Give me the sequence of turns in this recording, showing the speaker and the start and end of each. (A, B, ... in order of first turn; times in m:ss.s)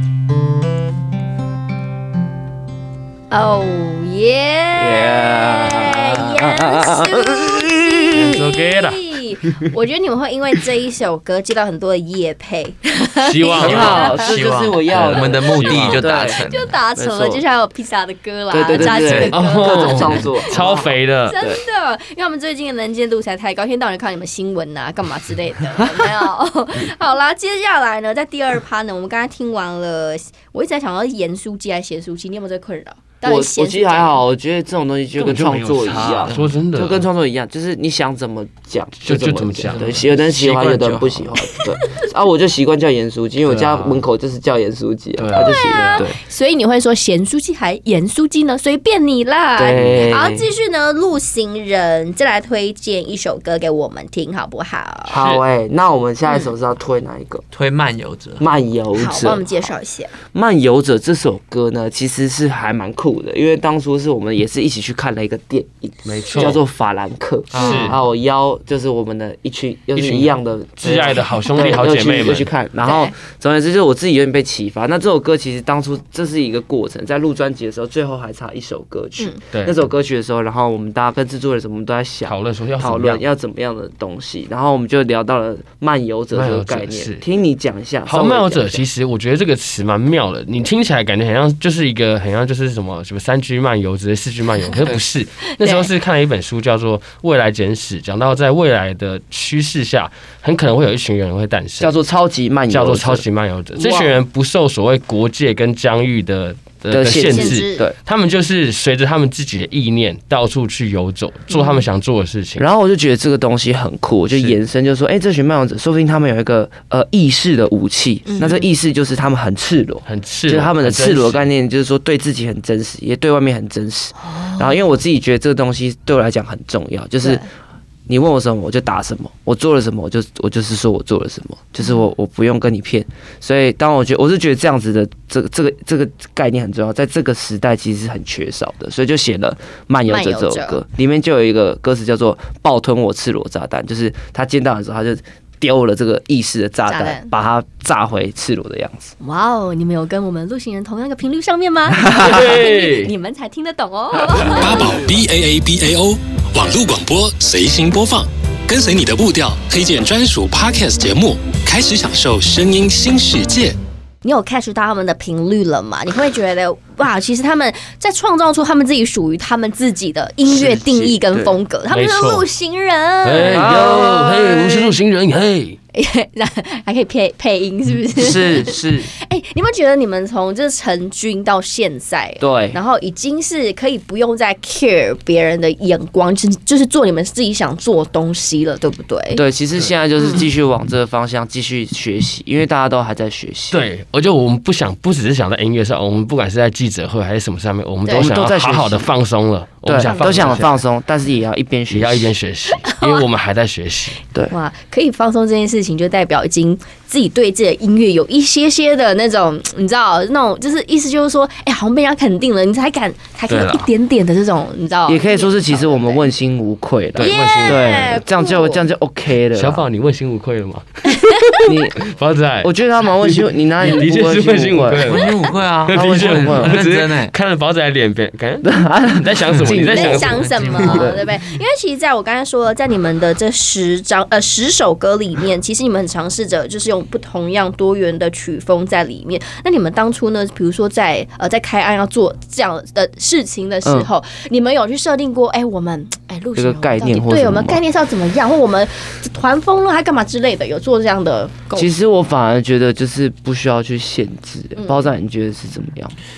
0:03.3-0:14.3 A
0:04.8-0:08.4 B
0:08.1-0:09.0 C
0:13.2-0:14.2 C
0:13.6-0:16.4 B
0:13.6-0:16.8 D
0:14.9-0:16.1 C
0:16.2-0:20.7 A
0:17.0-0:17.4 B
0:18.5-0:21.6 B
0:18.8-0:19.4 D
0:19.1-0:21.4 C
0:21.3-0:34.2 A
0:33.2-0:46.2 B
0:35.2-0:37.1 C
0:36.2-0:36.5 D
0:39.0-0:40.0 C
0:39.8-0:41.3 D
0:41.4-0:41.7 A
0:43.4-0:44.0 C
0:45.2-0:46.1 C
0:45.3-0:55.2 A
0:49.6-0:50.5 B
0:49.8-0:50.2 D
0:55.1-0:57.5 B
0:55.1-0:55.4 C
0:57.5-0:58.5 D
0:58.4-0:59.5 B
0:59.0-1:00.1 A
1:00.3-1:28.9 B
1:06.0-1:06.6 C
1:07.5-1:08.0 C
1:07.5-1:08.0 D
1:07.6-1:07.9 A
1:10.0-1:12.5 C
1:12.8-1:13.1 A
1:19.5-1:19.8 C
1:22.2-1:23.2 C
1:26.3-1:27.2 C
1:28.1-1:41.9 C
1:35.6-1:35.9 A
1:41.8-1:43.3 B
1:42.7-1:52.6 C
1:43.8-1:44.2 A
1:46.9-1:48.0 B
1:47.2-1:47.9 A
1:51.5-1:51.8 A
1:52.6-2:07.4 B
1:54.3-1:54.6 C
1:58.3-1:58.7 A
2:00.0-2:01.5 C
2:04.2-2:04.7 A
2:07.2-2:07.5 A
2:08.1-2:29.1 B
2:20.0-2:20.8 A
2:26.9-2:27.3 A
2:29.2-2:35.0 A
2:32.1-2:32.4 B
2:32.1-2:33.1 C
2:34.6-2:43.8 E
2:44.2-2:54.0 A
2:50.4-2:51.6 B
2:51.9-2:52.5 C
2:53.2-2:55.8 C
2:53.5-2:55.0 B
2:55.9-3:09.4 A
2:58.2-2:59.1 B
3:02.4-3:02.8 B
3:09.4-3:13.8 B
3:10.2-3:10.4 A
3:13.7-3:20.8 C
3:18.1-3:19.1 B
3:19.8-3:22.3 B
3:20.0-3:20.5 A
3:21.9-3:24.2 C
3:22.8-3:23.2 A
3:24.5-3:36.3 A
3:33.5-3:33.9 C
3:35.1-3:39.9 B
3:37.2-3:38.2 C
3:37.2-3:38.8 A
3:39.5-3:45.3 C
3:41.6-3:42.1 B
3:42.6-3:45.2 B
3:45.0-3:47.3 D
3:45.8-3:51.2 C
3:45.9-3:46.9 B
3:48.6-3:51.2 B
3:49.7-4:11.9 A
4:06.6-4:07.8 B
4:11.8-4:16.2 B
4:14.8-4:15.2 A